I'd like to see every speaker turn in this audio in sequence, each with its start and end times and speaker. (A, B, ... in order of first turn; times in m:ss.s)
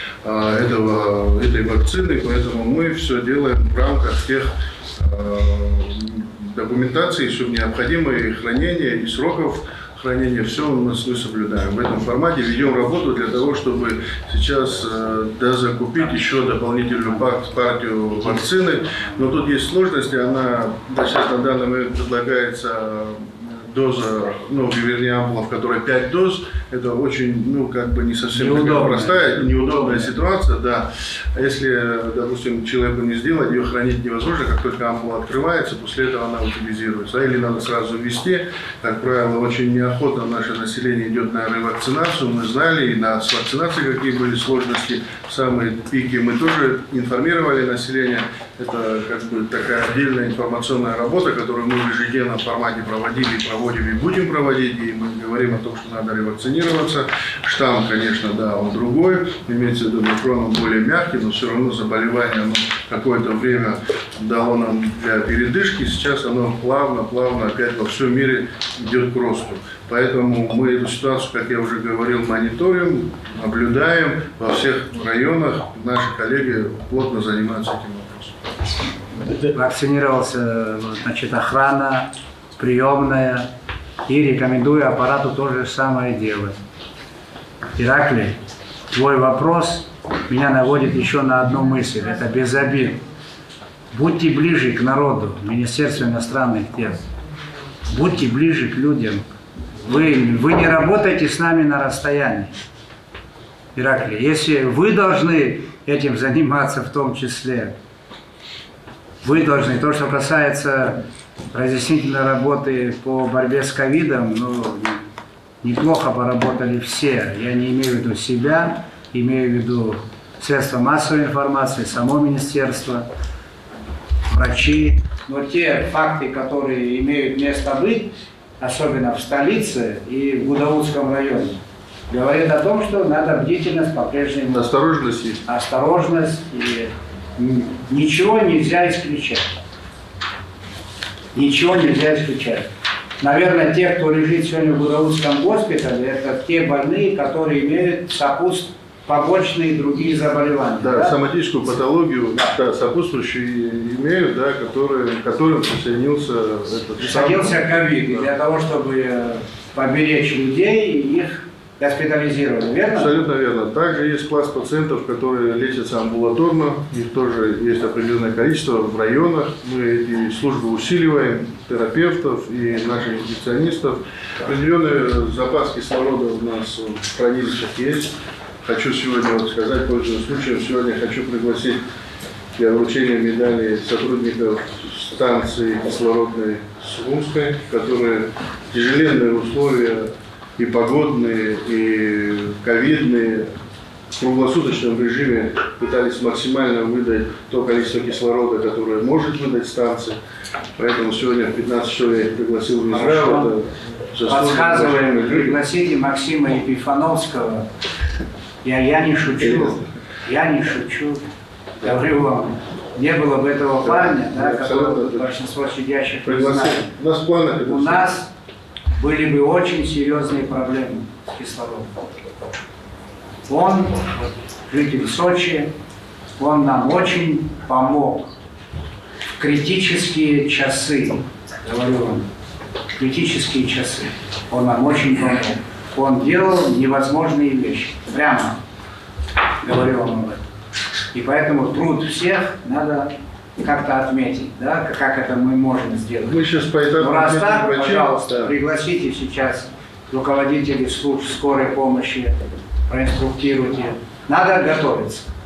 0:00.2-1:18.4 A
0:18.2-0:19.1 B
0:28.3-0:30.2 B
1:19.4-1:23.5 B
1:24.1-1:26.6 B
1:27.8-1:28.4 B
1:28.9-1:33.0 B
1:33.9-1:37.0 B
1:37.9-1:39.2 B
1:39.8-1:42.5 B
1:43.8-1:47.8 B
1:49.2-1:55.0 B
1:55.6-2:03.1 B
2:04.3-2:14.7 B
2:14.5-2:15.4 A
2:15.4-2:19.4 B
2:21.3-2:22.7 B
2:23.2-2:31.2 B
2:30.8-2:37.6 A
2:37.0-2:43.1 B
2:42.9-3:01.8 A
3:02.6-3:13.5 A
3:14.1-3:20.2 A
3:20.8-3:25.6 A
3:22.9-3:23.5 B
3:24.3-3:27.7 B
3:28.6-3:31.2 B
3:29.4-3:29.8 A
3:31.8-3:36.9 B
3:33.8-3:35.3 A
3:36.2-3:38.1 A
3:37.6-3:38.3 B
3:38.9-3:41.9 B
3:43.5-3:45.7 B
3:46.4-3:48.3 B
3:49.4-3:52.3 B
3:53.0-3:58.6 B
3:59.6-4:00.4 B
4:01.1-4:06.4 B
4:06.2-4:08.6 A
4:06.9-4:12.4 B
4:12.9-4:15.3 B